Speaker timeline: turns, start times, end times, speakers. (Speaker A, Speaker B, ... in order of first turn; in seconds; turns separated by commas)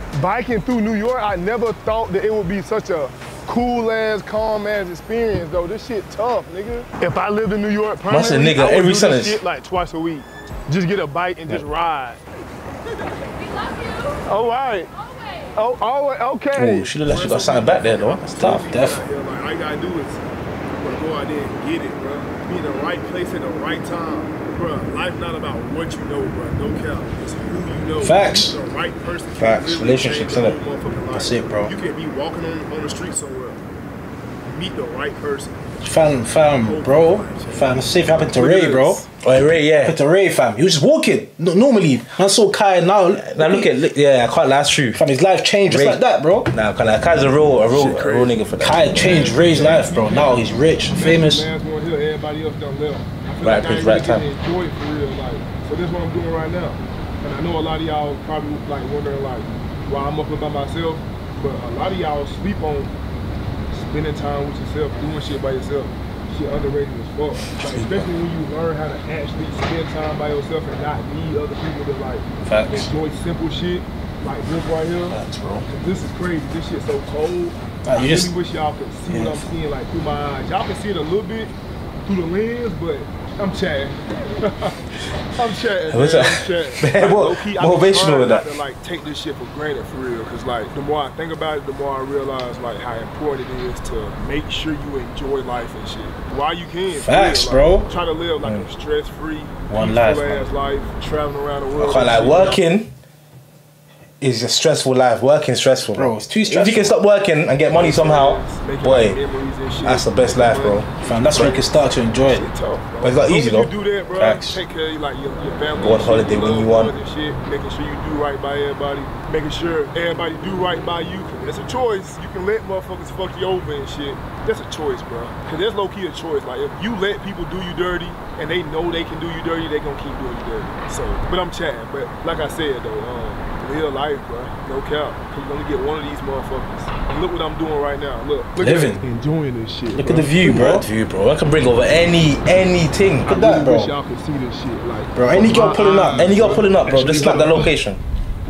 Speaker A: 0.2-12.2, Speaker B: 8.1-9.4, Speaker A: 14.2-14.9, Speaker A: 15.5-33.6, Speaker B: 16.5-18.7, Speaker C: 18.6-19.0, Speaker C: 28.0-28.6, Speaker B: 29.4-30.6, Speaker C: 31.1-31.7, Speaker A: 34.4-35.5, Speaker C: 35.8-39.0, Speaker A: 36.6-39.0, Speaker B: 39.2-40.0, Speaker C: 39.8-43.7, Speaker B: 43.1-45.0, Speaker C: 44.9-46.5, Speaker B: 45.7-49.1, Speaker A: 47.6-62.9, Speaker C: 48.6-51.5, Speaker B: 53.4-54.2, Speaker A: 63.7-81.5, Speaker C: 67.8-68.0, Speaker C: 72.4-72.9, Speaker B: 75.1-75.7, Speaker C: 77.8-78.3, Speaker C: 79.1-79.4, Speaker A: 82.0-84.8, Speaker A: 85.3-102.6, Speaker B: 85.9-88.5, Speaker C: 96.9-97.9, Speaker C: 99.7-100.5, Speaker B: 101.8-102.9, Speaker B: 104.2-109.2, Speaker C: 105.9-107.0, Speaker A: 107.7-140.7, Speaker B: 109.8-110.9, Speaker C: 111.0-112.5, Speaker B: 113.0-113.7, Speaker C: 114.2-114.6, Speaker B: 115.8-116.9, Speaker C: 138.6-139.0, Speaker C: 139.9-140.9, Speaker B: 140.4-143.4, Speaker A: 143.2-147.7, Speaker C: 143.3-143.9, Speaker C: 145.2-146.4, Speaker B: 146.1-148.0